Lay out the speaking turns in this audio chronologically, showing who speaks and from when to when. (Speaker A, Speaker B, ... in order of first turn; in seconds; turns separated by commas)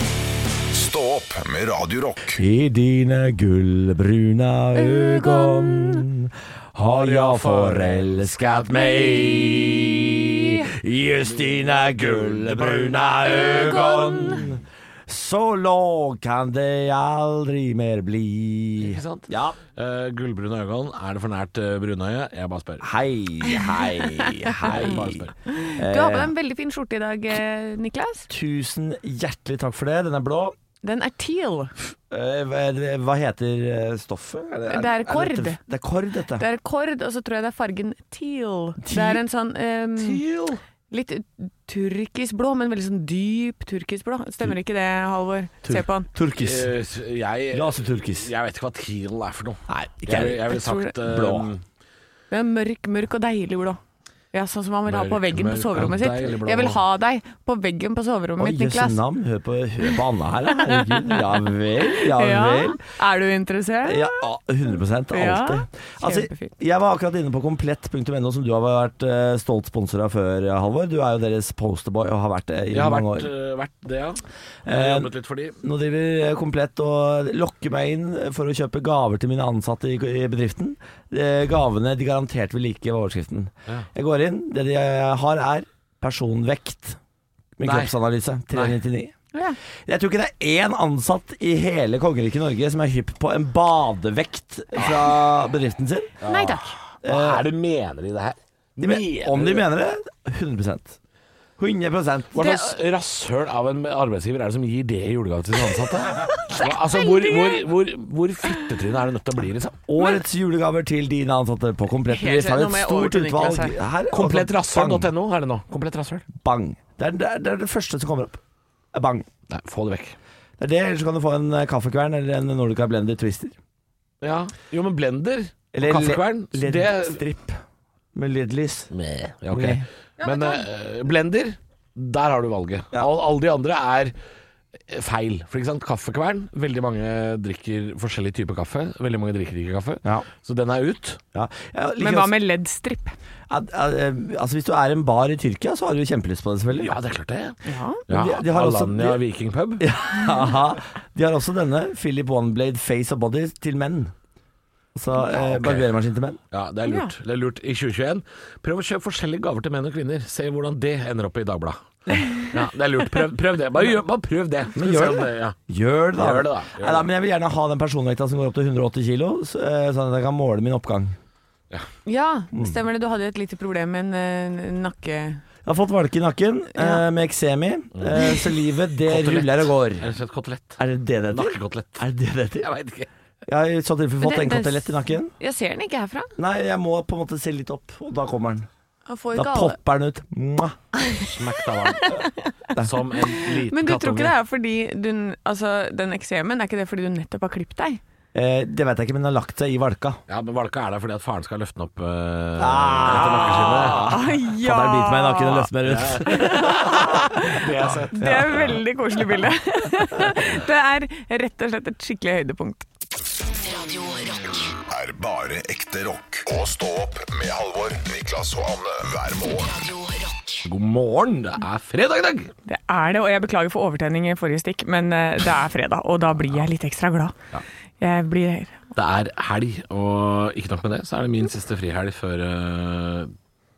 Speaker A: 0.7-2.4, Speaker B: 2.4-19.6, Speaker C: 4.8-6.0, Speaker D: 6.9-9.5, Speaker D: 11.2-13.7, Speaker C: 13.4-14.4, Speaker D: 18.8-22.9, Speaker B: 22.8-26.3, Speaker D: 24.6-25.3, Speaker C: 25.5-28.3, Speaker B: 28.3-30.5, Speaker C: 30.8-31.7, Speaker B: 32.1-36.4, Speaker C: 34.7-35.6, Speaker C: 36.3-40.2, Speaker B: 38.8-39.2, Speaker B: 40.1-40.5, Speaker C: 40.9-46.1, Speaker B: 45.6-46.7, Speaker D: 46.4-51.6, Speaker B: 47.5-48.3, Speaker B: 49.7-51.5, Speaker C: 50.5-50.9, Speaker C: 52.3-53.8, Speaker C: 54.3-59.0, Speaker D: 54.9-56.8, Speaker B: 58.4-62.8, Speaker C: 60.6-64.2, Speaker B: 63.8-73.3, Speaker C: 65.1-66.5, Speaker D: 72.7-75.6, Speaker B: 74.7-87.0, Speaker B: 87.6-89.1, Speaker D: 87.6-87.9, Speaker D: 88.5-88.8, Speaker B: 89.8-96.1, Speaker D: 96.2-99.7, Speaker C: 96.2-96.8, Speaker B: 97.0-97.5, Speaker B: 98.8-101.0, Speaker B: 101.6-102.5, Speaker D: 102.3-109.8, Speaker C: 102.4-102.7, Speaker C: 106.2-107.6, Speaker B: 109.9-115.1, Speaker C: 112.1-113.8, Speaker D: 114.1-116.3, Speaker B: 116.3-118.4, Speaker B: 118.9-119.3, Speaker D: 119.5-120.2, Speaker B: 120.6-123.5, Speaker D: 124.2-127.2, Speaker B: 125.7-127.6, Speaker B: 128.1-128.9, Speaker D: 128.9-134.1, Speaker B: 129.5-129.8, Speaker C: 130.2-130.6, Speaker D: 134.9-141.2, Speaker B: 141.3-142.3, Speaker C: 142.0-143.1, Speaker B: 143.5-146.9, Speaker D: 146.7-149.8, Speaker C: 147.6-148.0, Speaker B: 148.1-149.2, Speaker B: 149.8-154.1, Speaker B: 154.9-156.4, Speaker D: 155.3-155.9, Speaker D: 156.5-161.8, Speaker C: 156.8-157.1, Speaker D: 162.4-165.6, Speaker B: 164.8-171.2, Speaker D: 166.1-167.1, Speaker C: 172.1-175.4, Speaker B: 175.6-180.1, Speaker C: 176.7-177.0, Speaker D: 179.1-182.1, Speaker B: 180.8-182.7, Speaker D: 182.6-183.1, Speaker B: 183.5-185.3, Speaker C: 184.2-186.3, Speaker B: 186.4-188.7, Speaker C: 189.1-189.8, Speaker B: 189.3-190.8, Speaker C: 190.9-191.3, Speaker D: 191.3-192.2, Speaker C: 192.0-192.4, Speaker D: 192.7-194.3, Speaker C: 193.3-198.0, Speaker B: 198.3-200.2, Speaker D: 200.3-204.1, Speaker B: 202.6-208.7, Speaker C: 203.3-205.7, Speaker D: 205.8-208.8, Speaker C: 206.2-207.6, Speaker C: 208.1-212.8, Speaker E: 213.6-214.7, Speaker A: 214.9-219.7, Speaker E: 219.6-220.6, Speaker D: 220.6-222.5, Speaker C: 222.7-227.3, Speaker C: 228.0-228.8, Speaker D: 228.9-233.3